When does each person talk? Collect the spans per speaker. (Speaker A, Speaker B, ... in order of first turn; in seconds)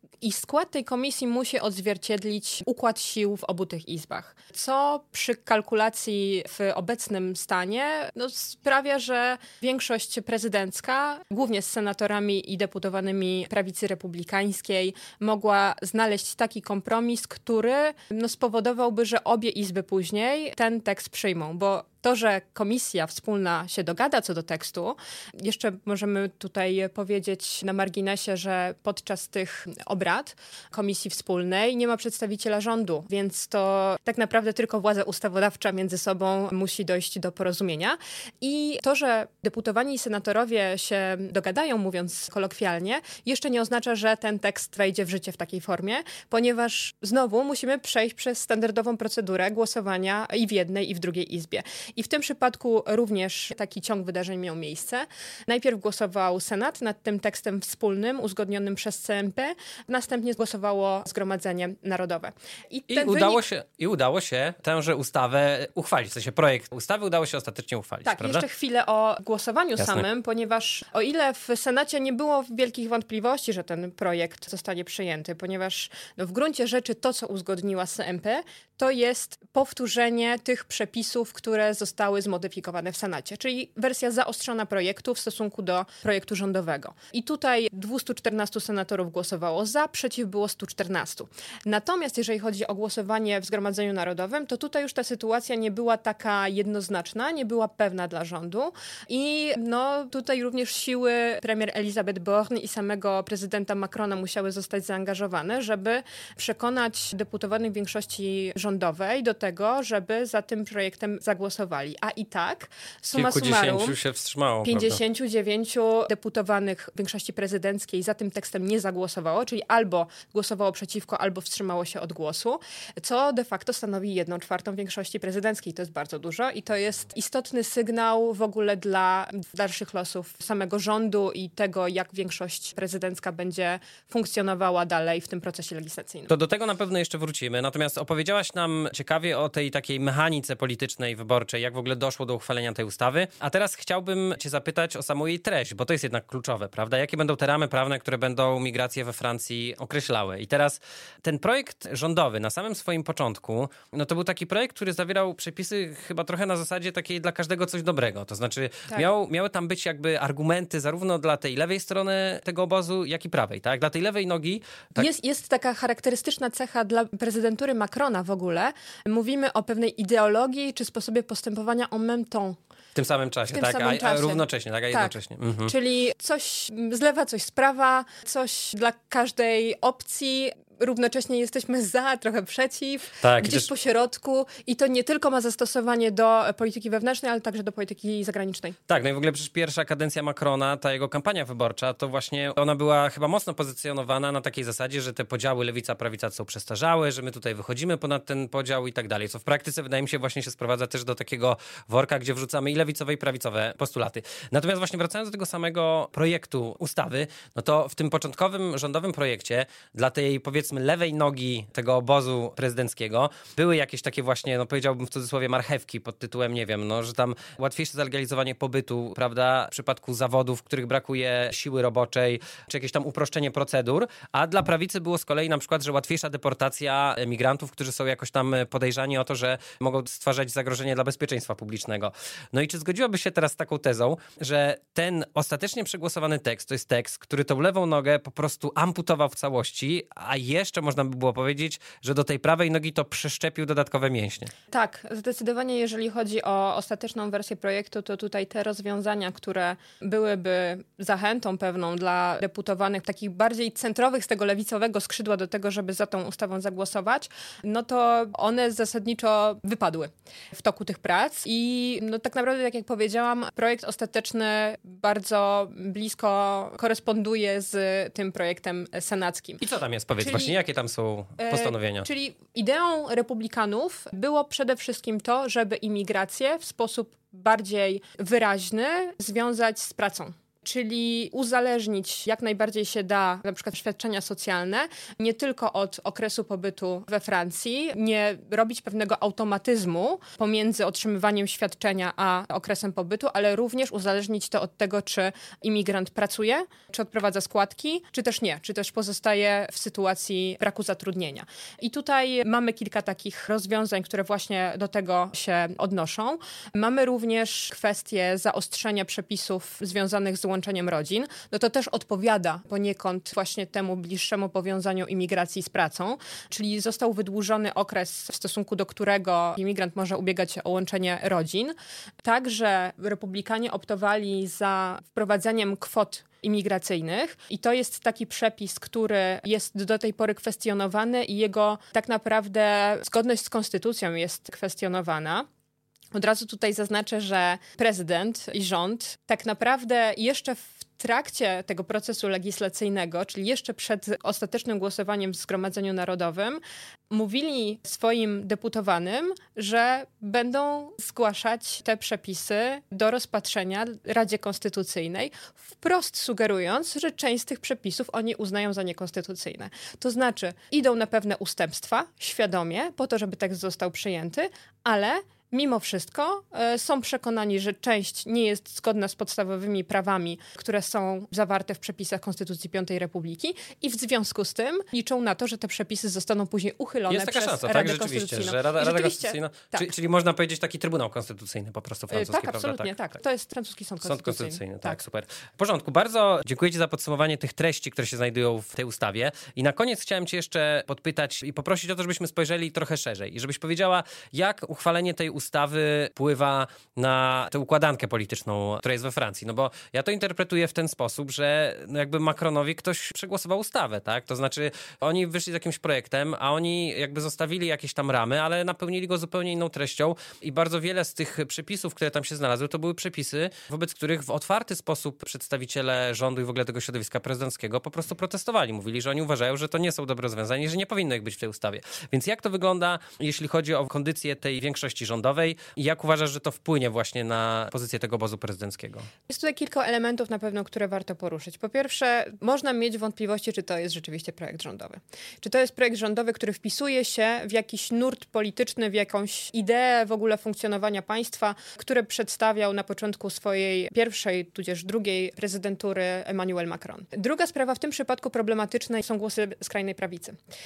Speaker A: 0.2-63.4, 68.1-114.0, 114.7-136.3, 165.0-172.6, 173.5-188.8, 244.7-269.6, 270.2-270.6, 271.4-335.5, 336.1-379.9, 382.1-385.0, 429.3-450.4
Speaker B: 62.9-68.5, 69.8-70.0, 113.1-115.0, 136.3-165.1, 172.9-175.7, 183.2-183.7, 188.9-244.5, 269.6-272.1, 377.1-383.0, 384.0-429.1